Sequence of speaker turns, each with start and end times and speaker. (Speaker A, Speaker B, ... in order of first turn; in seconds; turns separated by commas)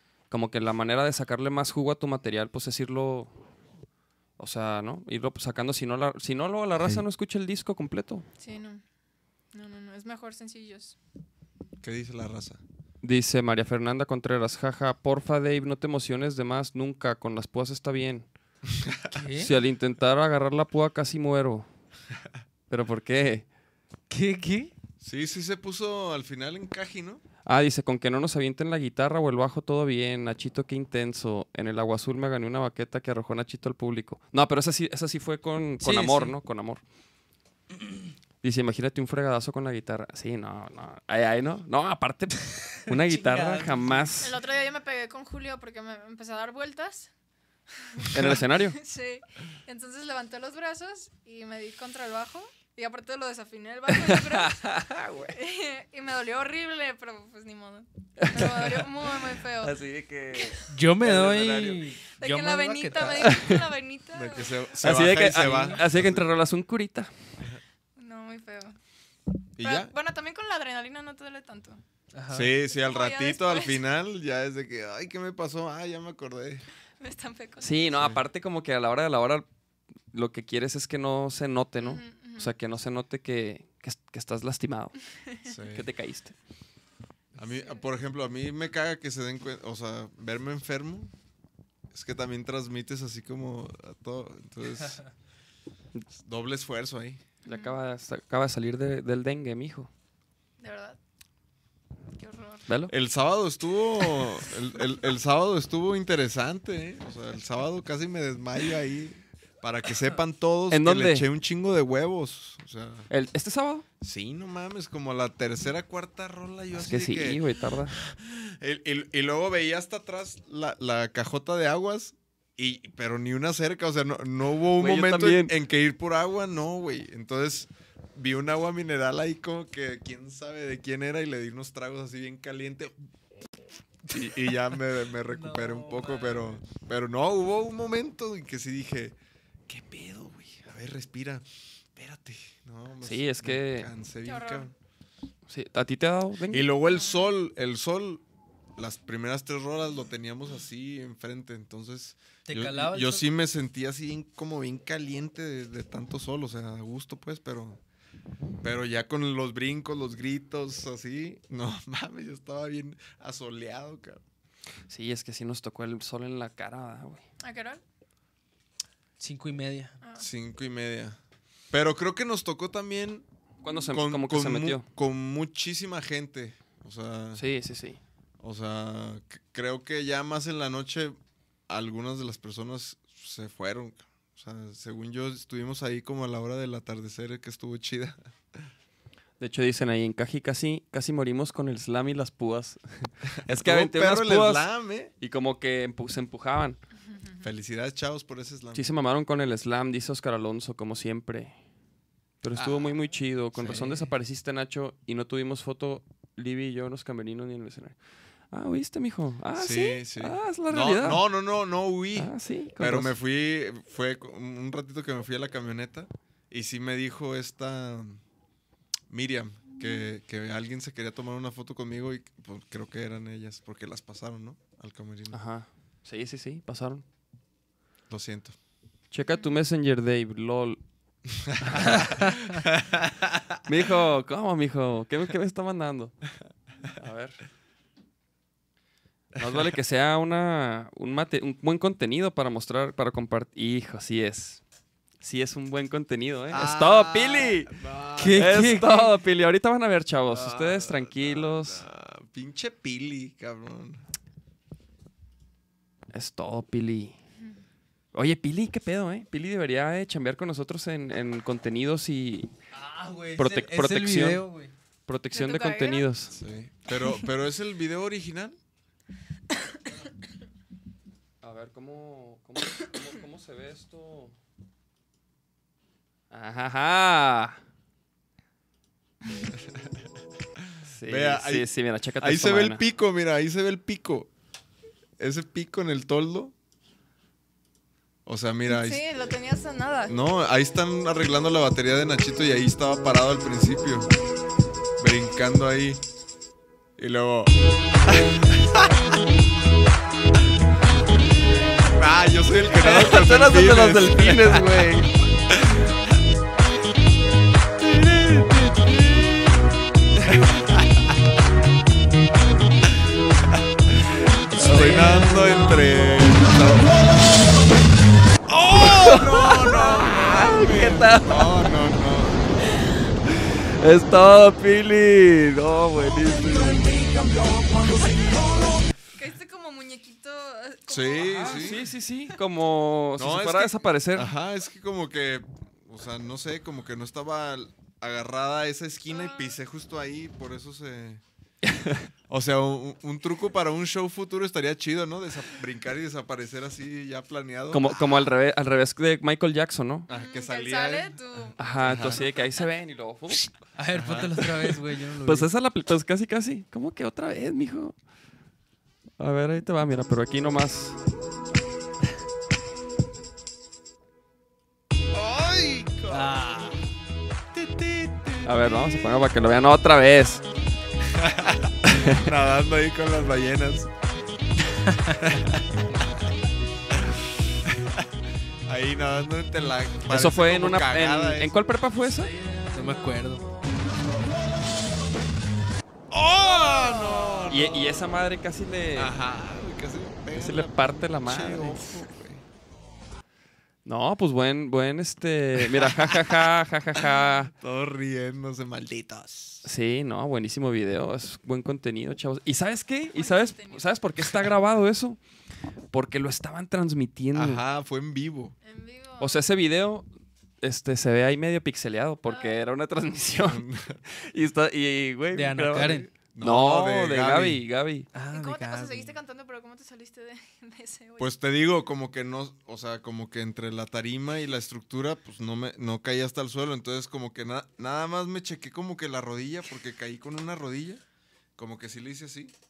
Speaker A: 0.3-3.3, Speaker A: 4.4-8.2, Speaker B: 8.4-8.8, Speaker B: 9.5-11.0, Speaker C: 11.8-12.6, Speaker A: 13.0-18.3, Speaker C: 18.7-19.1, Speaker D: 19.1-19.5, Speaker A: 19.4-21.7, Speaker A: 22.7-23.4, Speaker D: 24.1-24.7, Speaker C: 25.0-27.2, Speaker A: 27.5-36.8, Speaker D: 35.8-36.3, Speaker A: 38.4-44.3, Speaker D: 42.9-44.1, Speaker B: 44.2-47.1, Speaker B: 47.8-54.7, Speaker A: 48.1-48.8, Speaker A: 54.0-55.4, Speaker B: 55.3-59.7, Speaker A: 58.2-58.9, Speaker A: 59.6-61.6, Speaker D: 60.7-63.4, Speaker C: 61.0-61.9, Speaker B: 62.2-64.5, Speaker A: 63.3-63.6, Speaker C: 64.1-66.3, Speaker A: 64.8-67.1, Speaker B: 68.0-68.8, Speaker C: 69.6-69.9, Speaker B: 69.6-71.8, Speaker D: 72.1-72.5, Speaker C: 72.3-76.7, Speaker B: 72.7-73.8, Speaker B: 77.0-78.1, Speaker A: 77.6-79.5, Speaker A: 80.1-84.9, Speaker B: 81.8-82.5, Speaker C: 85.5-85.9, Speaker A: 85.7-86.3, Speaker C: 87.3-91.1, Speaker C: 91.9-95.0, Speaker C: 96.1-97.2, Speaker B: 97.5-97.8, Speaker A: 97.5-99.9, Speaker B: 100.6-101.0, Speaker B: 102.2-102.7, Speaker A: 102.7-102.9, Speaker C: 102.9-113.1, Speaker A: 110.7-111.3, Speaker A: 113.1-113.8, Speaker C: 114.0-117.4, Speaker A: 116.8-118.0, Speaker C: 118.0-133.0, Speaker A: 124.8-125.5, Speaker C: 134.1-139.2, Speaker D: 135.3-136.6, Speaker C: 139.7-144.8, Speaker A: 143.0-143.9, Speaker B: 144.2-144.7, Speaker A: 145.5-146.7, Speaker C: 146.5-148.2, Speaker B: 146.9-147.3, Speaker C: 148.8-157.8, Speaker D: 152.5-153.2, Speaker C: 158.6-164.2, Speaker A: 164.9-167.2, Speaker B: 167.4-167.8, Speaker D: 169.2-170.0, Speaker B: 170.0-170.3, Speaker C: 170.2-171.2, Speaker C: 171.7-173.3, Speaker A: 173.6-174.8, Speaker C: 173.9-177.4, Speaker A: 177.4-178.0, Speaker C: 178.4-181.2, Speaker C: 181.7-188.6, Speaker A: 189.4-196.8, Speaker C: 193.3-195.1, Speaker C: 197.4-198.9, Speaker A: 198.7-201.5, Speaker A: 202.4-208.0, Speaker C: 202.6-202.9, Speaker C: 203.6-204.1, Speaker A: 208.5-211.2, Speaker C: 209.6-218.2, Speaker A: 212.2-213.1, Speaker C: 219.1-225.4, Speaker A: 225.3-227.1, Speaker C: 228.1-228.5, Speaker A: 229.1-230.8, Speaker C: 231.5-233.6, Speaker A: 231.6-232.4, Speaker A: 233.7-236.2, Speaker A: 237.0-237.4, Speaker A: 239.4-244.6, Speaker A: 245.2-247.7, Speaker C: 246.5-248.8, Speaker D: 248.2-249.0, Speaker A: 248.3-251.8, Speaker C: 250.3-254.0, Speaker A: 256.1-257.2, Speaker A: 258.1-262.5, Speaker D: 262.7-264.7, Speaker A: 263.4-264.4, Speaker A: 265.1-266.4, Speaker B: 265.3-266.1, Speaker C: 266.3-268.6, Speaker A: 271.4-274.4, Speaker A: 276.3-277.6, Speaker A: 280.9-282.8, Speaker C: 281.1-281.7, Speaker C: 282.2-284.3, Speaker C: 285.2-286.5, Speaker C: 288.3-289.0, Speaker B: 288.7-290.1, Speaker C: 290.1-294.1, Speaker C: 295.0-296.0, Speaker C: 297.0-297.5, Speaker C: 298.1-298.9, Speaker C: 301.7-305.9, Speaker A: 302.7-305.1, Speaker C: 307.9-309.2, Speaker C: 310.3-311.1, Speaker C: 314.5-317.1, Speaker A: 314.6-315.6, Speaker D: 314.9-315.2, Speaker C: 318.5-322.5, Speaker A: 318.6-321.7, Speaker A: 323.3-326.8, Speaker C: 326.2-327.0, Speaker B: 329.1-331.8, Speaker C: 330.9-331.9, Speaker A: 331.3-334.3, Speaker C: 333.2-341.2, Speaker B: 339.1-339.6, Speaker A: 341.7-342.1, Speaker C: 342.3-348.3, Speaker A: 347.7-350.1, Speaker C: 350.1-352.3, Speaker B: 350.1-351.6, Speaker A: 351.6-353.5, Speaker D: 351.9-352.2, Speaker D: 353.8-355.5, Speaker C: 353.9-354.5, Speaker A: 355.2-357.9, Speaker A: 359.2-361.0, Speaker C: 365.1-366.5, Speaker D: 366.1-366.8, Speaker C: 367.6-368.5, Speaker A: 368.4-370.4, Speaker C: 371.1-373.9, Speaker A: 371.9-372.3, Speaker D: 374.9-375.2, Speaker C: 375.2-376.3, Speaker C: 376.9-378.1, Speaker C: 378.7-381.7, Speaker A: 380.1-382.3, Speaker D: 382.7-383.5, Speaker C: 386.1-388.1, Speaker A: 387.5-389.1, Speaker C: 388.9-392.4, Speaker A: 390.4-392.0, Speaker A: 393.9-397.5, Speaker C: 395.6-396.4, Speaker C: 396.9-399.7, Speaker A: 399.6-405.2, Speaker B: 403.1-403.9, Speaker A: 405.9-407.6, Speaker C: 407.3-408.6, Speaker B: 408.6-409.4, Speaker A: 409.2-410.1, Speaker A: 410.6-418.1, Speaker B: 412.3-412.6, Speaker C: 413.4-414.0, Speaker D: 415.3-416.1, Speaker C: 415.8-417.6, Speaker D: 418.1-419.1, Speaker B: 418.3-421.4, Speaker C: 421.2-431.0, Speaker C: 431.6-432.5